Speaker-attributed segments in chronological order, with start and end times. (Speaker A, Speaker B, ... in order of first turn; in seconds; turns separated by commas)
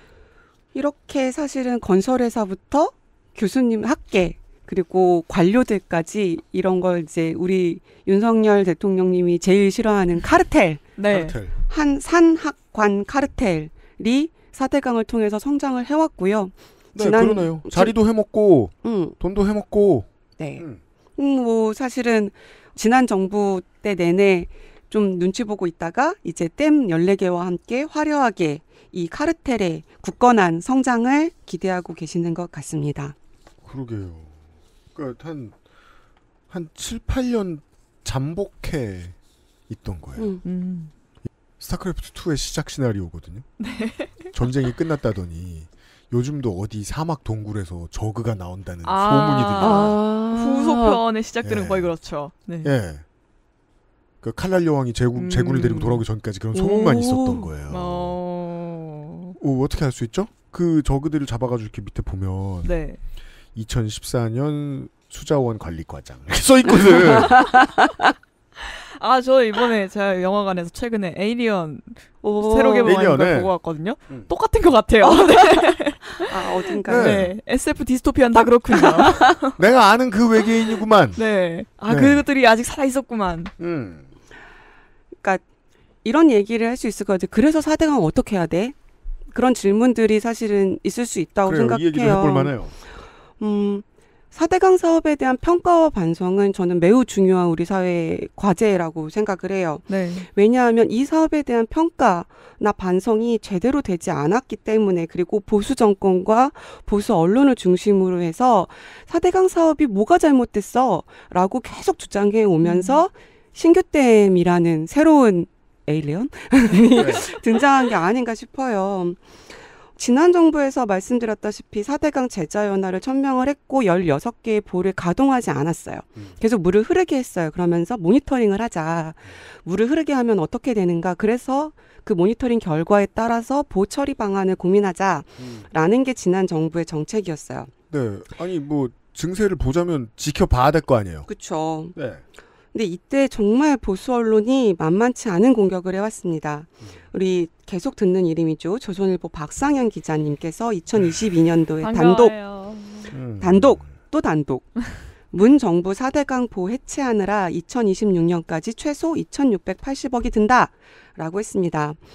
Speaker A: 0.7-10.9, Speaker B: 10.9-11.4, Speaker C: 11.1-11.5, Speaker A: 11.7-17.9, Speaker C: 16.9-20.8, Speaker A: 18.8-19.1, Speaker A: 20.4-20.6, Speaker A: 21.2-33.1, Speaker C: 33.6-34.3, Speaker C: 34.9-35.6, Speaker C: 36.5-39.1, Speaker C: 39.7-40.4, Speaker B: 40.4-40.9, Speaker C: 41.6-43.5, Speaker B: 43.6-44.3, Speaker C: 44.3-50.0, Speaker B: 48.8-52.7, Speaker A: 49.6-51.0, Speaker C: 51.4-51.9, Speaker C: 52.6-53.0, Speaker C: 54.2-58.2, Speaker B: 55.1-56.0, Speaker A: 56.5-57.5, Speaker B: 57.7-59.4, Speaker C: 59.4-62.7, Speaker B: 62.6-63.0, Speaker C: 63.5-67.6, Speaker A: 67.2-67.5, Speaker B: 68.6-79.5, Speaker A: 72.2-72.9, Speaker C: 72.8-73.5, Speaker A: 75.0-75.7, Speaker A: 76.2-77.2, Speaker C: 76.8-77.3, Speaker A: 78.7-79.2, Speaker C: 79.6-81.2, Speaker B: 81.1-83.5, Speaker C: 81.9-82.2, Speaker C: 83.6-84.1, Speaker A: 86.0-88.7, Speaker A: 89.3-92.8, Speaker C: 91.4-92.7, Speaker A: 93.4-119.4, Speaker B: 99.9-100.3, Speaker B: 112.6-113.0, Speaker C: 117.0-117.2, Speaker A: 119.9-137.7, Speaker C: 135.4-135.7, Speaker C: 137.9-141.3, Speaker A: 141.3-141.9, Speaker C: 141.9-142.2, Speaker A: 142.7-152.4, Speaker B: 151.8-153.1, Speaker C: 153.1-153.9, Speaker A: 153.4-162.0